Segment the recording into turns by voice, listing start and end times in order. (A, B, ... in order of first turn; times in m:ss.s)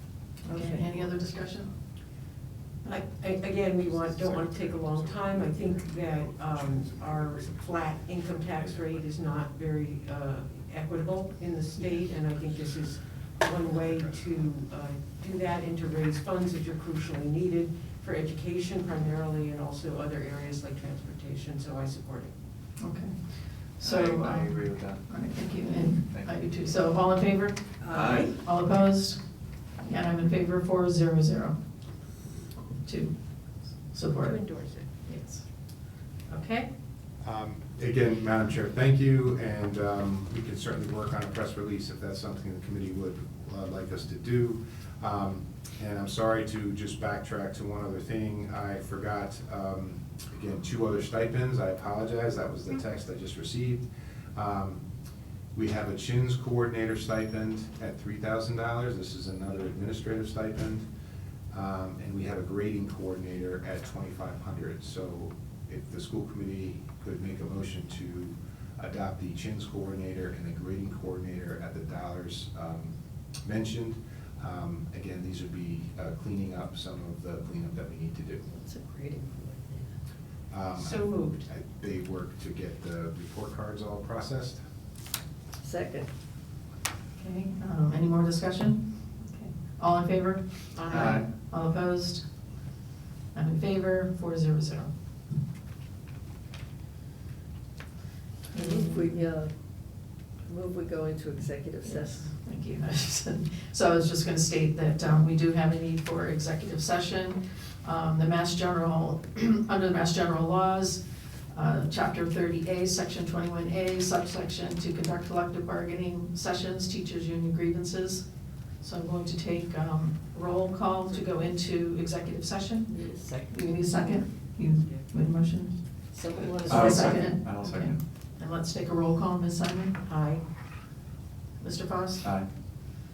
0:00.4-0:01.7 A
0:00.5-0:00.9 B
0:02.8-0:22.3 C
0:03.7-0:09.1 D
0:13.6-0:14.3 D
0:22.8-0:29.2 A
0:23.8-0:25.3 E
0:26.0-0:26.4 E
0:27.8-0:28.3 B
0:27.9-0:28.3 E
0:29.8-0:31.6 A
0:32.8-0:33.2 A
0:33.9-0:34.4 A
0:34.2-0:34.9 C
0:35.0-0:35.5 A
0:36.3-0:36.7 A
0:37.2-0:54.8 D
0:55.6-1:00.9 D
1:01.5-1:18.4 D
1:18.4-1:20.0 B
1:20.5-1:24.6 D
1:20.8-1:21.5 C
1:25.6-1:26.1 B
1:27.2-1:32.3 A
1:30.7-1:31.2 C
1:30.9-1:31.2 E
1:33.3-1:34.9 A
1:38.5-1:39.6 B
1:38.5-1:39.2 A
1:40.5-1:42.3 B
1:41.8-1:58.3 A
1:58.8-2:02.9 A
2:01.0-2:01.6 C
2:02.9-2:03.8 B
2:03.5-2:05.8 A
2:03.9-2:05.1 C
2:06.1-2:07.3 B
2:06.6-2:08.0 E
2:06.6-2:10.0 A
2:10.0-2:10.4 C
2:11.6-2:12.3 A
2:12.2-2:12.5 E